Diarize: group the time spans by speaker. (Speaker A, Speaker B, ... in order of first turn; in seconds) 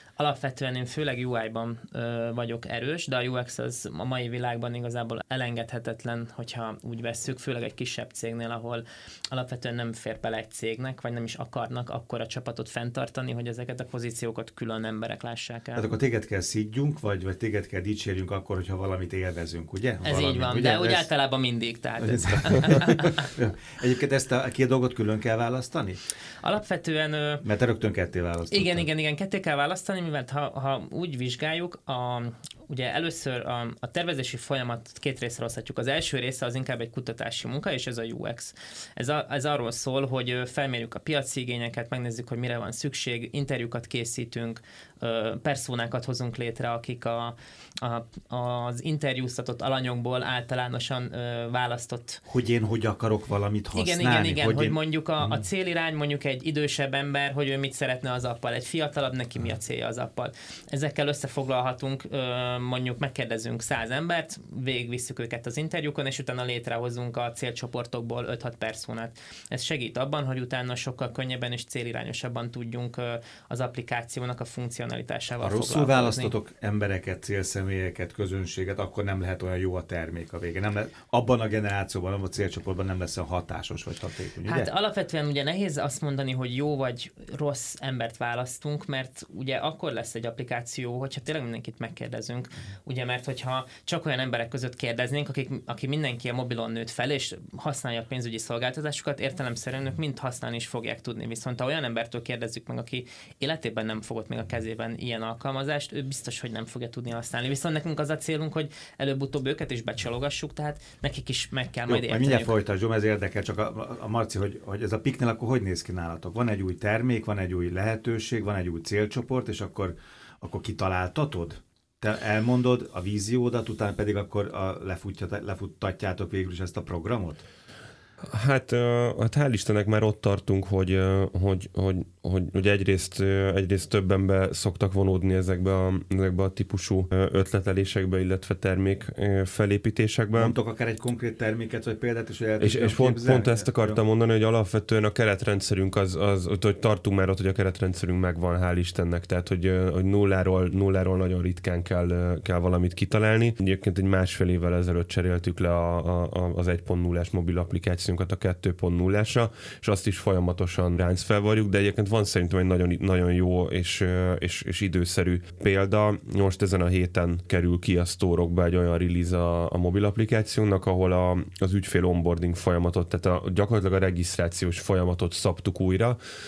Speaker A: 0.2-15.9, 20.0-23.3, 26.4-27.4, 28.5-52.2, 53.7-76.3, 84.5-112.5
Speaker B: 15.7-21.1, 22.0-26.0, 27.4-28.9, 52.3-55.5, 75.4-84.7, 111.9-127.4, 140.3-144.0
Speaker C: 128.3-140.6, 142.6-176.2